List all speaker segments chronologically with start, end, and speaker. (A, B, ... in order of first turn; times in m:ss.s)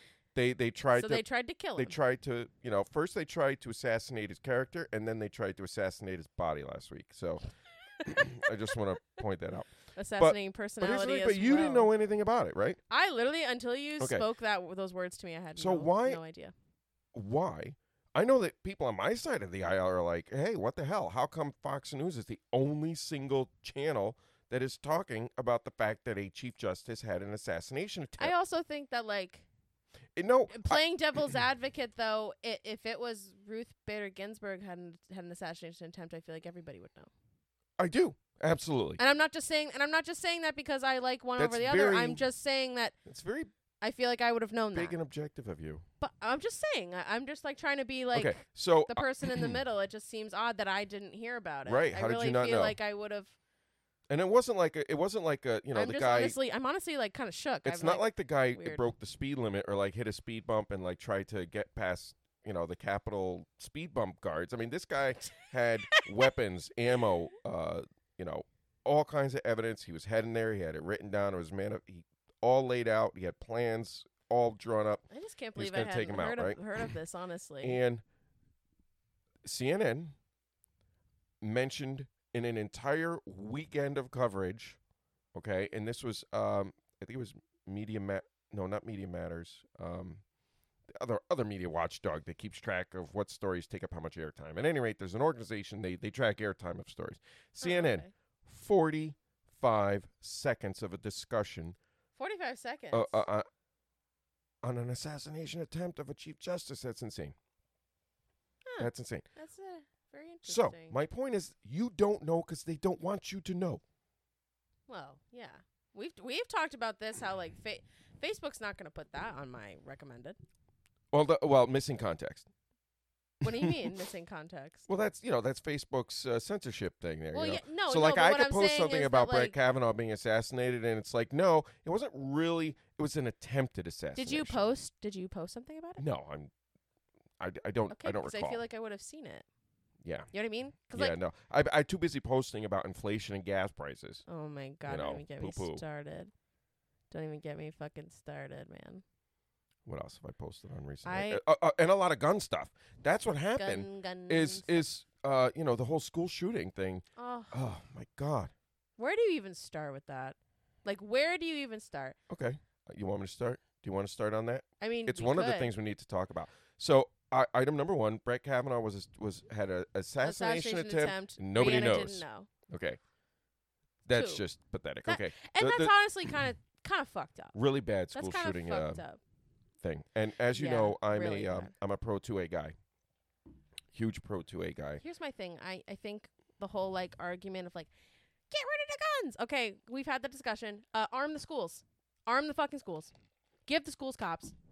0:00.3-0:01.2 A
0:00.9-0:02.0 B
0:01.8-0:07.5 A
0:08.0-0:12.8 A
0:08.1-0:08.7 B
0:09.9-0:11.9 B
0:12.9-0:16.5 B
0:14.0-0:14.2 A
0:15.6-0:16.2 A
0:17.1-0:28.3 A
0:28.2-0:29.5 B
0:30.2-0:30.8 A
0:30.5-0:37.1 B
0:37.8-0:39.0 A
0:39.0-0:43.0 B
0:41.4-0:42.2 A
0:43.0-0:43.5 A
0:43.8-0:45.0 B
0:44.7-0:45.8 A
0:46.0-0:53.4 B
0:48.1-0:49.6 A
0:51.6-0:52.8 A
0:54.1-0:56.4 A
0:55.7-0:58.8 B
0:57.6-1:16.9 A
1:06.0-1:06.3 B
1:15.1-1:17.8 B
1:17.6-1:18.0 A
1:19.4-1:20.1 A
1:21.4-1:24.8 A
1:25.3-1:30.2 A
1:30.9-1:41.8 A
1:37.6-1:38.1 B
1:42.2-1:43.2 B
1:42.9-1:43.4 A
1:44.6-1:47.4 A
1:48.6-1:51.0 B
1:48.8-1:49.2 A
1:50.4-1:53.8 A
1:54.9-2:00.4 B
2:01.1-2:02.5 A
2:03.4-2:04.9 B
2:03.4-2:03.9 A
2:04.9-2:14.7 A
2:07.3-2:09.6 B
2:14.2-2:16.0 B
2:16.0-2:16.5 A
2:17.4-2:18.6 A
2:17.9-2:19.4 B
2:20.0-2:20.3 A
2:20.3-2:21.2 B
2:20.9-2:24.2 A
2:24.3-2:26.3 B
2:24.9-2:25.8 A
2:27.1-2:29.0 B
2:29.8-2:38.5 A
2:31.0-2:31.4 B
2:33.6-2:34.8 B
2:37.2-2:37.6 B
2:39.0-2:42.2 B
2:42.3-2:53.0 A
2:44.8-2:45.7 B
2:50.2-2:52.5 B
2:54.0-2:55.9 A
2:54.1-2:54.4 B
2:55.1-2:57.5 B
2:57.5-2:59.0 A
2:58.1-2:59.2 B
2:59.8-3:02.7 A
3:00.5-3:01.7 B
3:03.9-3:05.0 A
3:05.0-3:07.9 B
3:08.5-3:13.1 B
3:13.7-3:14.5 B